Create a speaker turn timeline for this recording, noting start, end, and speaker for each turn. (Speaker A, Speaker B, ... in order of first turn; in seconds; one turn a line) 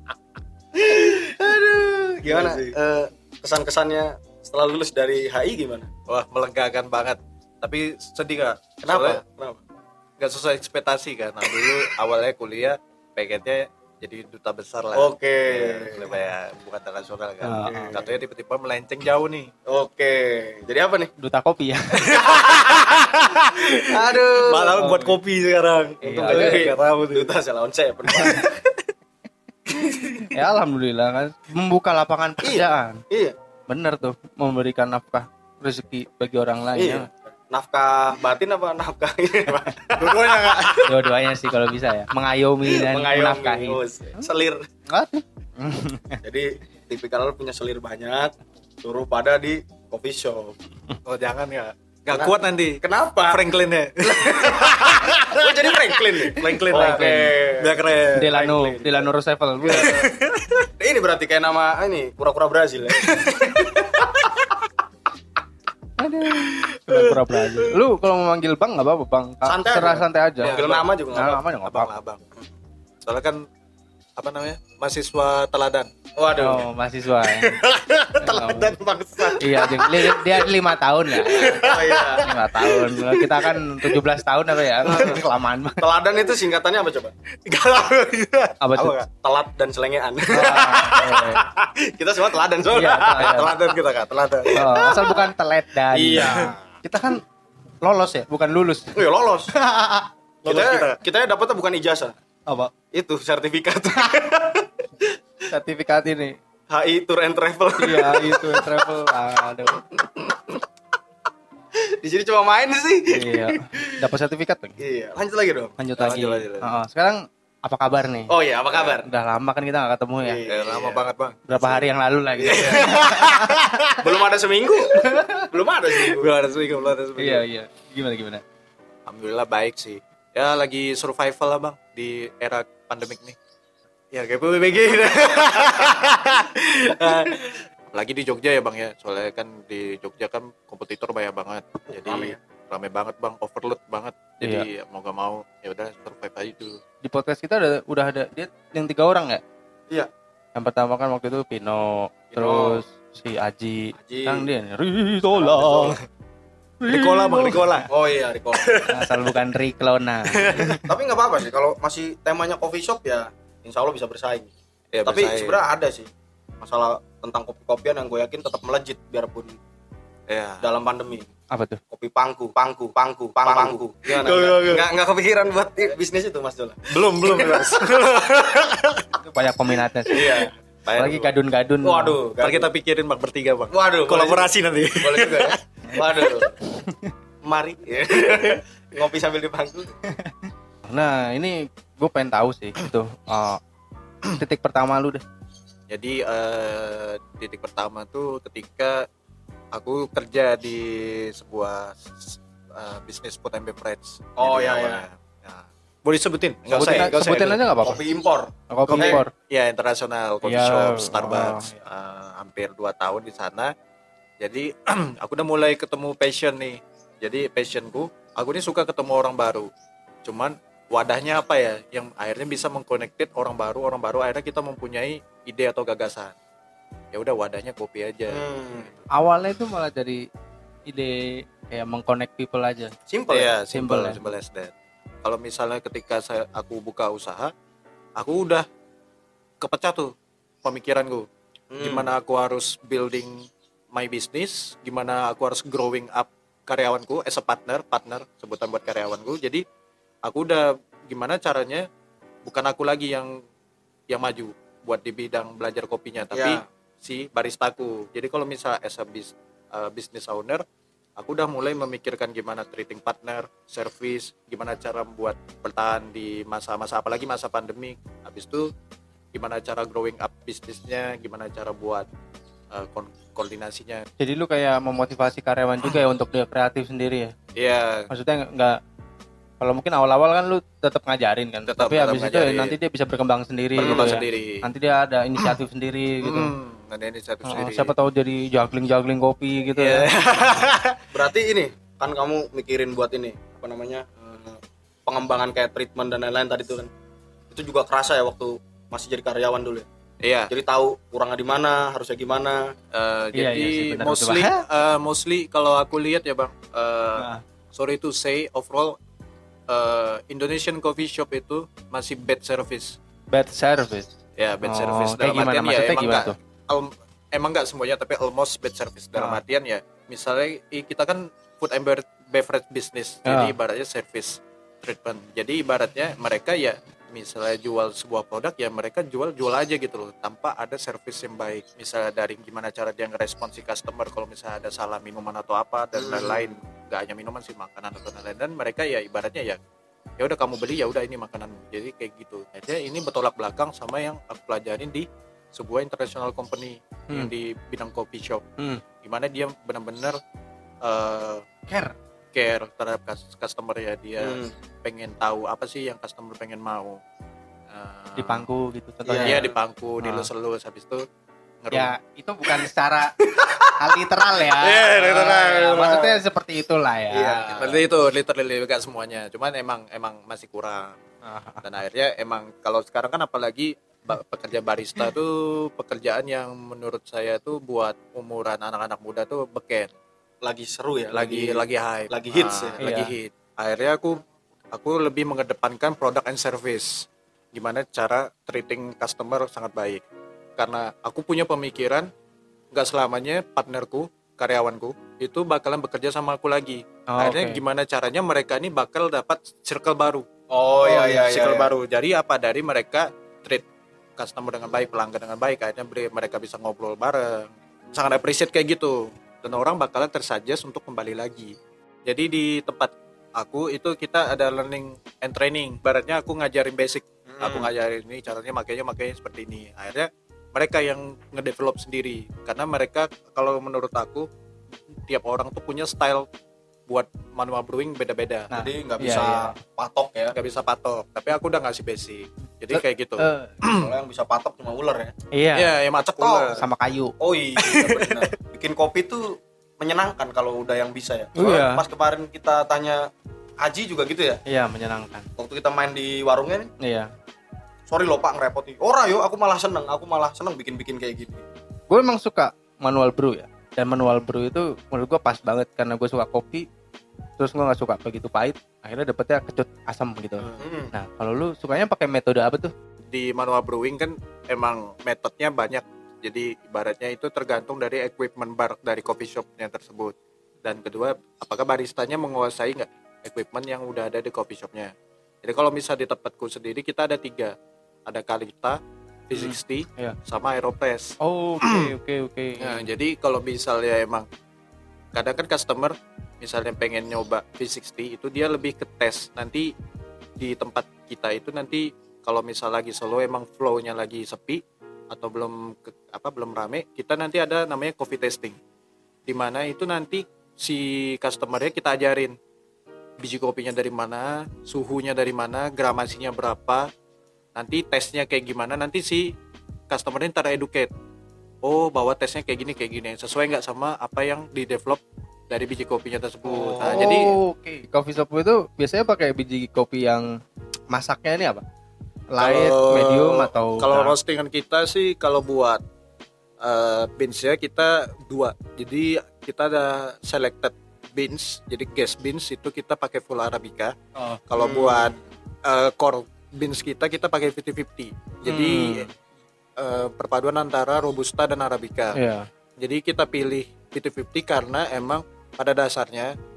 Speaker A: 0.8-5.9
Speaker B: 2.2-2.8
Speaker B: 6.1-9.2
Speaker A: 8.8-9.6
Speaker B: 10.2-19.5
Speaker A: 14.9-16.1
Speaker C: 17.4-17.8
Speaker A: 17.6-18.1
Speaker A: 19.7-21.1
Speaker C: 21.2-22.2
Speaker B: 22.0-27.3
Speaker A: 22.2-23.0
Speaker A: 23.8-25.0
Speaker C: 24.6-25.1
Speaker C: 26.0-26.7
Speaker A: 26.1-28.5
Speaker B: 28.1-28.6
Speaker A: 29.7-30.3
Speaker C: 30.3-33.0
Speaker A: 32.4-33.3
Speaker C: 33.7-37.1
Speaker A: 36.8-40.9
Speaker B: 40.0-40.8
Speaker C: 40.9-44.3
Speaker A: 42.7-44.7
Speaker C: 44.9-46.2
Speaker A: 46.2-50.6
Speaker B: 51.0-58.3
Speaker A: 52.1-53.5
Speaker A: 54.0-59.1
Speaker C: 56.7-57.1
Speaker C: 58.1-60.0
Speaker A: 59.6-60.1
Speaker B: 59.7-60.7
Speaker A: 60.8-64.4
Speaker C: 66.0-71.9
Speaker A: 66.4-66.8
Speaker A: 69.5-71.4
Speaker B: 71.6-72.2
Speaker B: 73.0-73.4
Speaker B: 74.2-75.9
Speaker A: 76.2-76.7
Speaker C: 76.4-77.5
Speaker B: 77.6-79.7
Speaker A: 78.2-80.2
Speaker C: 78.3-78.7
Speaker C: 79.4-85.8
Speaker A: 81.2-83.7
Speaker B: 81.3-82.3
Speaker A: 84.8-85.2
Speaker A: 85.8-87.1
Speaker B: 87.5-89.1
Speaker C: 88.6-88.9
Speaker A: 89.2-93.8
Speaker C: 90.3-91.4
Speaker C: 92.7-93.5
Speaker B: 93.0-94.6
Speaker A: 94.5-95.3
Speaker C: 94.5-97.2
Speaker A: 95.9-96.5
Speaker B: 96.1-96.5
Speaker C: 97.8-99.0
Speaker A: 98.9-99.5
Speaker B: 99.7-101.0
Speaker A: 100.5-102.2
Speaker C: 102.5-102.7
Speaker A: 102.9-104.7
Speaker C: 105.5-106.4
Speaker A: 106.7-108.9
Speaker C: 107.8-109.8
Speaker A: 109.7-110.6
Speaker A: 111.8-113.9
Speaker C: 113.1-114.8
Speaker A: 114.8-115.8
Speaker C: 115.8-118.3
Speaker B: 116.0-116.7
Speaker A: 118.3-119.1
Speaker C: 119.0-120.4
Speaker A: 120.2-121.0
Speaker B: 120.5-121.5
Speaker C: 121.5-123.6
Speaker A: 122.4-123.2
Speaker B: 122.5-124.1
Speaker A: 124.0-126.3
Speaker C: 125.0-125.5
Speaker B: 126.1-127.4
Speaker C: 127.2-128.4
Speaker B: 129.1-133.4
Speaker B: 134.1-146.8
Speaker A: 141.9-142.4
Speaker C: 144.4-144.7
Speaker C: 147.0-149.4
Speaker C: 150.6-156.0
Speaker A: 152.3-152.8
Speaker A: 154.0-154.5
Speaker A: 155.5-156.0
Speaker C: 156.8-157.8
Speaker B: 156.9-157.9
Speaker A: 157.9-158.8
Speaker B: 158.5-159.2
Speaker C: 158.9-160.8
Speaker B: 160.3-160.8
Speaker A: 160.7-164.5
Speaker B: 164.9-165.6
Speaker A: 165.1-166.1
Speaker A: 166.6-169.6
Speaker B: 170.3-170.7
Speaker A: 170.6-171.3
Speaker C: 171.5-171.8
Speaker A: 171.9-177.9
Speaker C: 173.4-174.7
Speaker B: 174.3-174.8
Speaker B: 176.9-179.1
Speaker C: 179.2-182.2
Speaker A: 180.1-180.5
Speaker B: 180.9-181.3
Speaker A: 181.8-182.7
Speaker B: 182.4-186.5
Speaker A: 183.7-186.5
Speaker C: 186.8-187.1
Speaker A: 187.4-189.9
Speaker C: 190.9-193.6
Speaker C: 194.3-195.2
Speaker B: 195.9-199.0
Speaker B: 199.7-207.6
Speaker A: 204.4-205.1
Speaker A: 206.7-207.2
Speaker C: 206.7-208.0
Speaker A: 207.8-209.2
Speaker C: 208.7-209.3
Speaker B: 208.9-213.7
Speaker C: 210.4-211.7
Speaker B: 214.4-219.7
Speaker B: 220.2-226.3
Speaker B: 227.1-229.0
Speaker A: 228.3-228.9
Speaker C: 229.1-230.2
Speaker C: 230.9-232.9
Speaker A: 233.1-233.5
Speaker B: 233.3-234.7
Speaker C: 233.7-234.2
Speaker B: 235.2-237.5
Speaker B: 238.2-238.7
Speaker B: 239.6-240.1
Speaker B: 240.6-241.3
Speaker A: 241.7-242.1
Speaker B: 241.8-249.6
Speaker B: 250.2-251.9
Speaker B: 252.4-253.4
Speaker B: 254.1-260.6
Speaker A: 256.3-256.6
Speaker B: 261.2-268.7
Speaker B: 269.3-272.1
Speaker B: 272.7-274.1
Speaker C: 274.2-277.3
Speaker B: 277.6-278.1
Speaker C: 278.1-278.8
Speaker C: 279.6-286.5
Speaker B: 281.7-282.8
Speaker B: 283.8-284.7
Speaker A: 283.8-284.2
Speaker B: 286.2-287.9
Speaker C: 287.4-290.1
Speaker B: 289.7-291.0
Speaker A: 291.1-296.9
Speaker A: 297.5-299.9
Speaker B: 300.2-300.5
Speaker A: 300.5-302.7
Speaker B: 302.9-309.0
Speaker C: 303.4-304.6
Speaker C: 307.2-307.4
Speaker B: 309.7-313.0
Speaker C: 313.3-314.1
Speaker B: 314.4-339.6
Speaker C: 314.6-316.4
Speaker C: 323.3-323.5
Speaker A: 336.0-336.5
Speaker B: 340.2-348.4
Speaker C: 348.6-348.8
Speaker B: 349.0-350.2
Speaker B: 350.8-351.5
Speaker C: 351.7-351.9
Speaker B: 352.3-357.0
Speaker A: 354.2-354.5
Speaker B: 357.7-358.5
Speaker C: 358.2-359.5
Speaker A: 359.1-359.4
Speaker B: 359.2-361.0
Speaker C: 360.0-360.3
Speaker B: 361.6-361.9
Speaker C: 361.7-363.1
Speaker B: 363.3-364.0
Speaker C: 363.8-367.7
Speaker B: 364.5-365.9
Speaker A: 365.3-366.2
Speaker A: 367.1-367.8
Speaker B: 367.5-370.9
Speaker C: 371.2-371.6
Speaker B: 371.6-379.9
Speaker A: 380.4-382.8
Speaker B: 381.1-384.2
Speaker C: 382.8-383.1
Speaker B: 384.7-390.0
Speaker B: 390.6-392.1
Speaker B: 392.7-400.3
Speaker C: 397.1-397.6
Speaker A: 400.5-401.7
Speaker B: 400.8-403.6
Speaker B: 404.2-411.5
Speaker B: 412.1-424.3
Speaker A: 417.3-417.7
Speaker B: 425.1-426.3
Speaker B: 426.9-428.5
Speaker C: 428.5-429.6
Speaker A: 428.5-430.4
Speaker B: 430.3-433.9
Speaker C: 432.7-433.6
Speaker A: 433.6-435.1
Speaker C: 435.3-435.7
Speaker B: 435.5-436.6
Speaker A: 436.2-436.6
Speaker C: 436.6-437.1
Speaker A: 437.2-443.1
Speaker B: 437.6-438.3
Speaker C: 441.4-441.9
Speaker A: 443.6-444.4
Speaker C: 444.5-445.3
Speaker A: 445.4-446.7
Speaker C: 446.8-447.1
Speaker A: 447.9-451.4
Speaker C: 451.9-456.7
Speaker C: 457.4-462.7
Speaker A: 460.4-460.9
Speaker B: 463.1-470.1
Speaker B: 470.6-474.9
Speaker B: 475.4-477.5
Speaker B: 478.1-478.8
Speaker B: 479.3-481.9
Speaker C: 479.4-480.1
Speaker C: 481.2-482.9
Speaker B: 482.6-484.3
Speaker B: 485.1-489.7
Speaker B: 490.4-498.6
Speaker B: 499.3-502.4
Speaker B: 503.2-506.9
Speaker B: 507.6-509.3
Speaker B: 509.9-510.9
Speaker B: 511.6-517.3
Speaker A: 516.5-517.2
Speaker C: 516.8-520.3
Speaker C: 520.9-521.6
Speaker C: 522.3-524.1
Speaker B: 522.4-525.8
Speaker B: 526.6-534.0
Speaker B: 534.5-539.1
Speaker A: 534.6-535.2
Speaker C: 538.5-539.1
Speaker B: 539.8-542.2
Speaker C: 542.1-542.5
Speaker B: 542.8-546.3